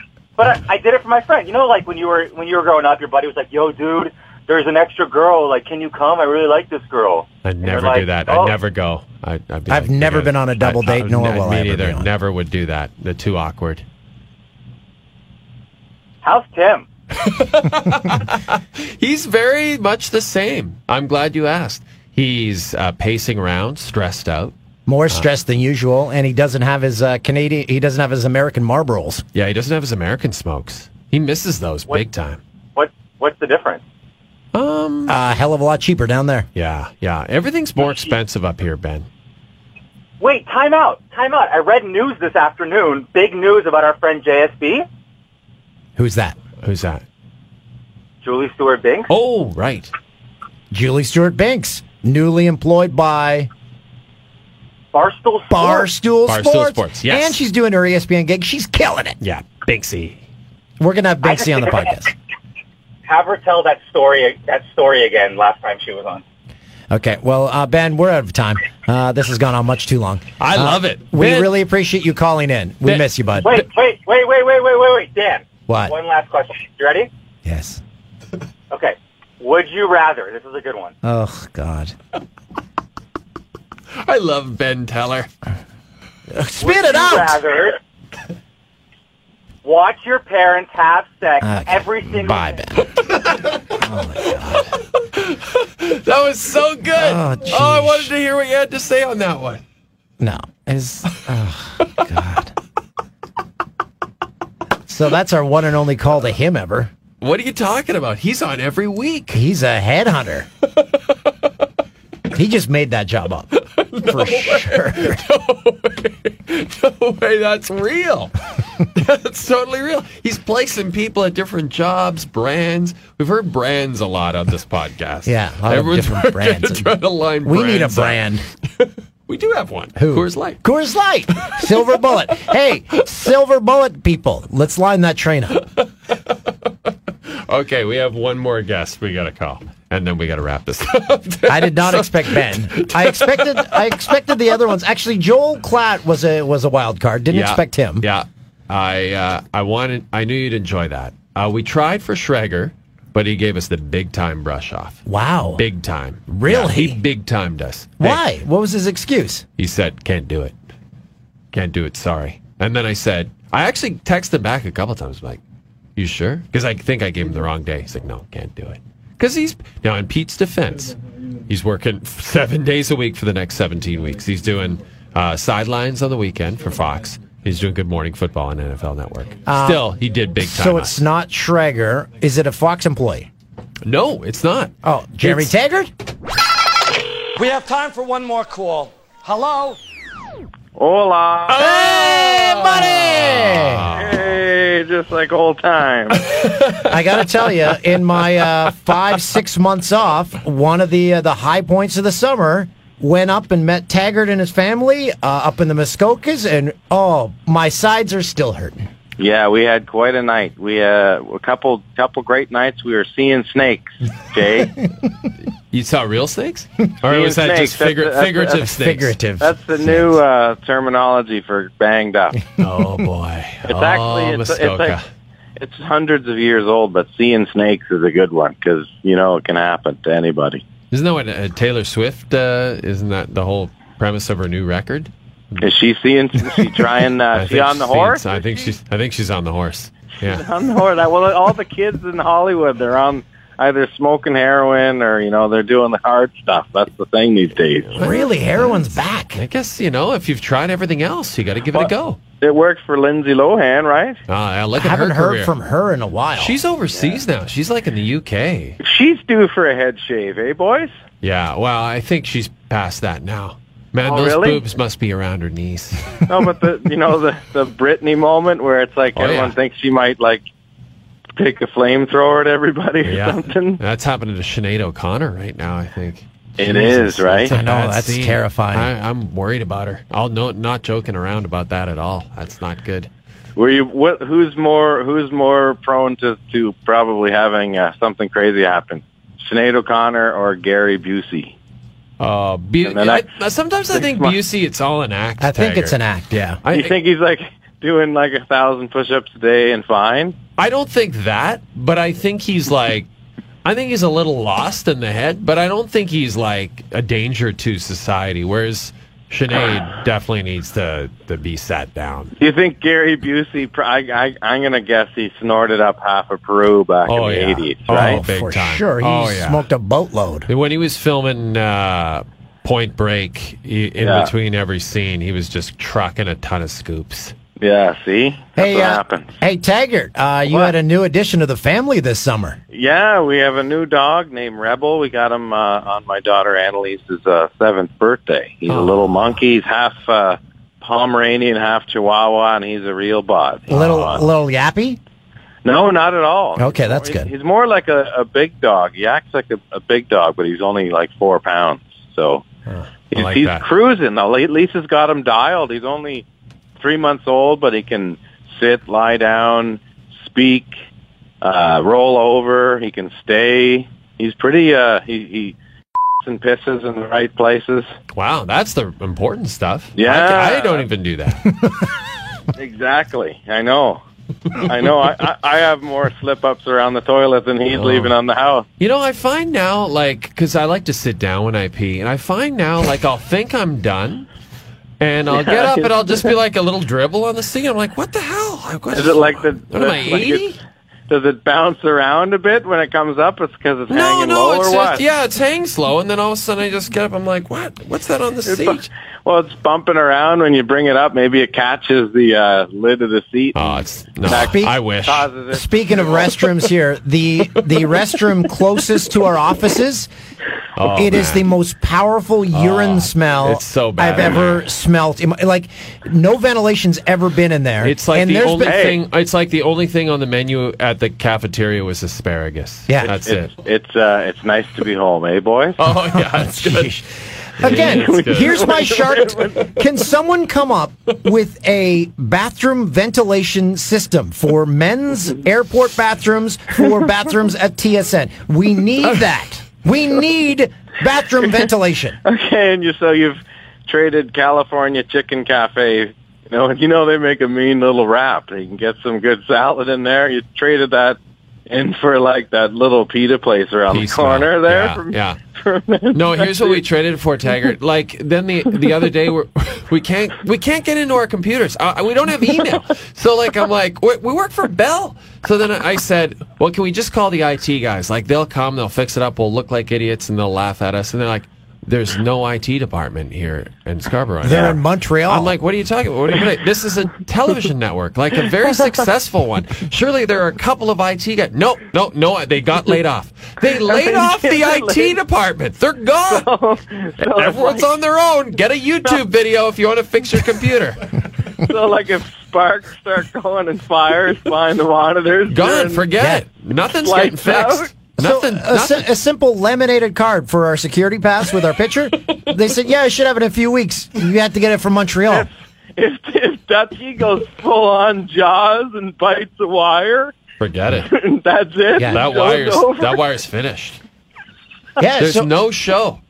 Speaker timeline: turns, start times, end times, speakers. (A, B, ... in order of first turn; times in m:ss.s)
0:00.4-0:08.5 A
0:07.4-0:13.8 B
0:09.7-0:12.1 C
0:16.2-0:16.9 A
0:17.2-0:24.5 B
0:24.8-0:29.2 C
0:29.3-0:32.4 B
0:32.7-0:33.8 A
0:34.5-0:35.2 B
0:35.1-0:36.5 C
0:36.5-0:39.1 B
0:40.2-0:44.8 A
0:46.0-0:46.4 C
0:46.6-0:47.0 B
0:48.2-0:49.1 A
0:49.1-0:49.9 B
0:50.7-0:53.5 C
0:54.9-0:55.9 A
0:55.5-0:59.2 C
0:56.2-0:57.4 B
0:59.2-1:00.2 B
1:00.8-1:02.1 C
1:01.2-1:01.9 A
1:03.1-1:06.2 A
1:06.9-1:13.6 C
1:10.4-1:11.5 B
1:13.4-1:17.1 A
1:15.7-1:15.9 C
1:17.4-1:17.8 C
1:18.7-1:20.9 A
1:21.0-1:21.9 C
1:24.0-1:25.3 B
1:26.3-1:27.4 C
1:26.6-1:27.8 A
1:29.6-1:32.6 A
1:31.4-1:32.9 C
1:33.0-1:33.6 B
1:33.7-1:34.7 C
1:35.0-1:39.6 B
1:37.0-1:38.1 C
1:40.2-1:42.5 C
1:44.9-1:46.9 C
1:47.2-1:49.4 B
1:49.3-1:50.5 C
1:52.3-1:53.5 C
1:53.6-1:58.3 B
1:54.0-1:55.2 C
1:58.9-2:08.2 B
2:05.2-2:06.9 C
2:07.4-2:08.4 C
2:08.8-2:10.6 B
2:10.0-2:15.6 C
2:11.4-2:11.9 B
2:17.3-2:24.3 B
2:21.5-2:28.1 C
2:27.3-2:38.2 B
2:35.0-2:35.6 C
2:36.3-2:37.0 C
2:38.0-2:39.4 C
2:39.6-2:40.5 B
2:41.5-2:45.4 B
2:46.0-3:01.0 B
2:59.4-3:03.3 C
3:03.8-3:05.5 B
3:04.8-3:05.9 C
3:07.4-3:09.8 D
3:10.8-3:11.6 E
3:11.5-3:14.3 B
3:11.5-3:13.8 C
3:13.9-3:16.2 E
3:16.4-3:16.9 B
3:16.8-3:28.8 C
3:29.2-3:34.8 E
3:35.7-3:39.1 B
3:37.1-3:38.7 E
3:38.7-3:40.1 C
3:39.4-3:42.4 E
3:42.6-3:45.0 B
3:43.7-3:45.0 E
3:45.6-3:50.6 E
3:50.9-3:55.7 B
3:55.6-3:58.2 E
3:57.3-4:00.4 B
4:00.2-4:08.0 E
4:07.9-4:08.8 B
4:08.0-4:09.4 C
4:09.3-4:12.2 B
4:11.7-4:14.2 E
4:14.3-4:15.5 B
4:14.7-4:16.6 C
4:16.4-4:18.8 B
4:18.8-4:20.9 E
4:21.2-4:26.1 B
4:24.0-4:24.6 E
4:26.3-4:30.4 E
4:29.1-4:29.5 B
4:31.4-4:33.8 E
4:33.0-4:43.1 B
4:36.6-4:37.5 E
4:37.4-4:38.9 C
4:43.6-4:51.5 E
4:52.2-4:56.0 B
4:52.8-4:53.2 E
4:53.9-4:54.4 E
4:55.4-4:56.6 C
4:56.6-4:57.0 B
4:56.7-5:00.4 E
5:00.6-5:03.1 B
5:03.6-5:12.3 B
5:12.4-5:18.2 E
5:17.0-5:19.6 B
5:17.9-5:20.5 C
5:20.5-5:27.3 B
5:24.0-5:24.3 E
5:27.6-5:29.3 E
5:28.6-5:32.6 C
5:30.4-5:30.7 E
5:32.7-5:44.2 E
5:38.7-5:39.3 B
5:43.7-5:44.2 B
5:43.7-5:45.0 C
5:45.6-5:52.4 E
5:46.6-5:47.3 C
5:52.7-5:53.6 B
5:53.1-5:56.2 E
5:56.8-6:00.8 E
6:01.4-6:05.6 E
6:06.2-6:07.9 E
6:08.1-6:11.6 B
6:10.0-6:10.9 E
6:12.5-6:14.0 E
6:14.6-6:18.6 E
6:17.7-6:18.1 B
6:18.8-6:24.3 B
6:25.0-6:30.6 B
6:25.3-6:26.3 E
6:28.9-6:30.5 E
6:31.1-6:35.0 E
6:33.9-6:38.9 B
6:38.4-6:46.5 E
6:43.5-6:45.3 B
6:44.2-6:44.8 C
6:45.5-6:50.1 C
6:50.8-6:51.4 B
6:50.8-6:58.9 C
6:52.5-6:54.7 B
6:57.8-7:03.5 B
6:58.6-6:59.0 E
7:02.9-7:03.2 C
7:03.1-7:05.8 E
7:05.8-7:06.9 B
7:06.1-7:22.2 C
7:07.6-7:08.8 B
7:07.8-7:09.6 E
7:22.2-7:31.2 E
7:31.7-7:36.8 E
7:33.9-7:35.4 B
7:36.1-8:06.5 B
7:54.4-7:55.5 C
8:03.6-8:05.2 E
8:06.2-8:07.9 E
8:07.2-8:11.0 B
8:11.6-8:16.1 E
8:15.5-8:19.0 B
8:16.2-8:16.4 C
8:17.0-8:17.9 E
8:18.2-8:25.5 C
8:25.2-8:30.3 E
8:30.6-8:31.1 B
8:31.0-8:33.2 E
8:31.9-8:32.2 C
8:32.0-8:34.0 B
8:35.0-8:35.5 C
8:35.2-8:36.2 B